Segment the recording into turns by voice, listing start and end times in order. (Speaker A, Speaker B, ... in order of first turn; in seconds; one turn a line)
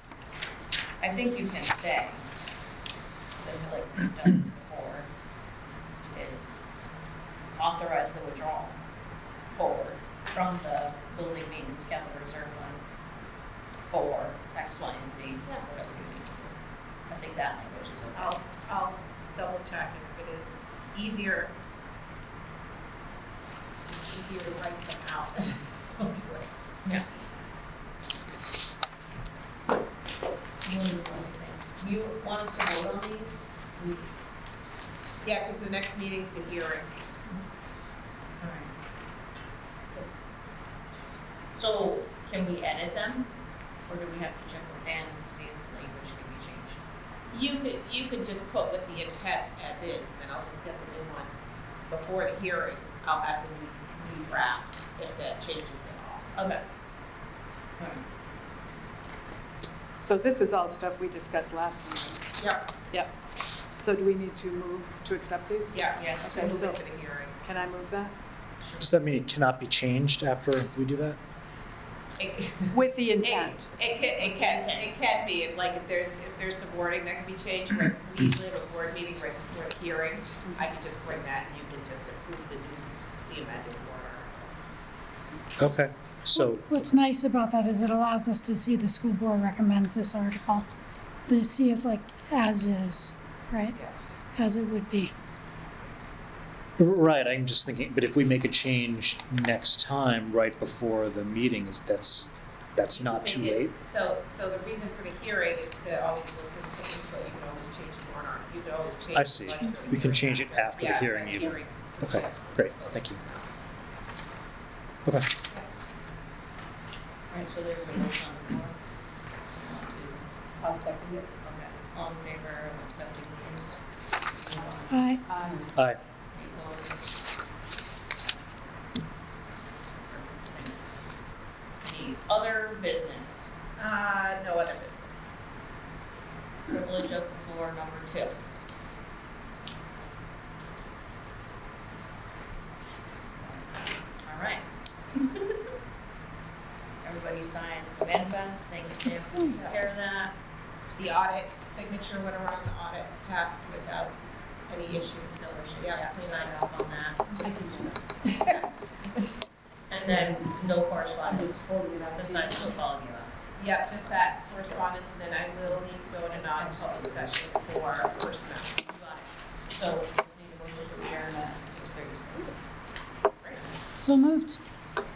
Speaker A: 1.0-2.3
Speaker A: 3.4-5.1
Speaker A: 6.1-6.6
Speaker A: 7.6-8.8
Speaker A: 9.5-12.8
Speaker A: 13.9-16.6
Speaker B: 15.4-15.7
Speaker A: 17.1-18.4
Speaker B: 18.1-21.5
Speaker B: 23.9-26.5
Speaker A: 30.6-34.1
Speaker B: 35.2-36.9
Speaker A: 38.4-38.7
Speaker A: 41.5-43.3
Speaker A: 43.9-46.8
Speaker B: 47.3-51.3
Speaker B: 51.9-56.3
Speaker A: 56.4-56.6
Speaker A: 57.8-58.0
Speaker C: 60.0-62.4
Speaker B: 62.4-62.7
Speaker C: 63.7-66.8
Speaker B: 65.7-67.4
Speaker A: 66.0-66.5
Speaker C: 67.4-68.1
Speaker A: 68.6-69.0
Speaker D: 68.8-71.2
Speaker B: 72.2-84.5
Speaker C: 72.7-73.7
Speaker A: 74.1-74.9
Speaker D: 85.6-86.9
Speaker E: 86.3-90.7
Speaker E: 91.3-93.8
Speaker E: 94.3-95.1
Speaker D: 96.8-103.7
Speaker B: 102.9-113.5
Speaker D: 109.1-113.2
Speaker A: 117.3-118.8
Speaker A: 119.4-120.2
Speaker B: 120.6-121.3
Speaker A: 121.4-125.7
Speaker E: 124.9-125.2
Speaker C: 125.2-125.7
Speaker A: 126.3-127.2
Speaker A: 130.1-130.8
Speaker A: 131.8-133.5
Speaker B: 133.8-135.2
Speaker A: 136.7-138.3
Speaker A: 143.4-143.7
Speaker A: 144.2-145.6
Speaker A: 147.0-150.3
Speaker B: 149.5-149.8
Speaker B: 150.9-154.1
Speaker B: 154.7-156.7
Speaker A: 155.3-157.2
Speaker C: 157.4-157.9
Speaker B: 158.2-158.6
Speaker A: 159.9-164.3
Speaker C: 161.7-162.1
Speaker B: 163.6-168.8
Speaker A: 166.3-167.6
Speaker A: 168.8-172.6
Speaker E: 174.0-174.6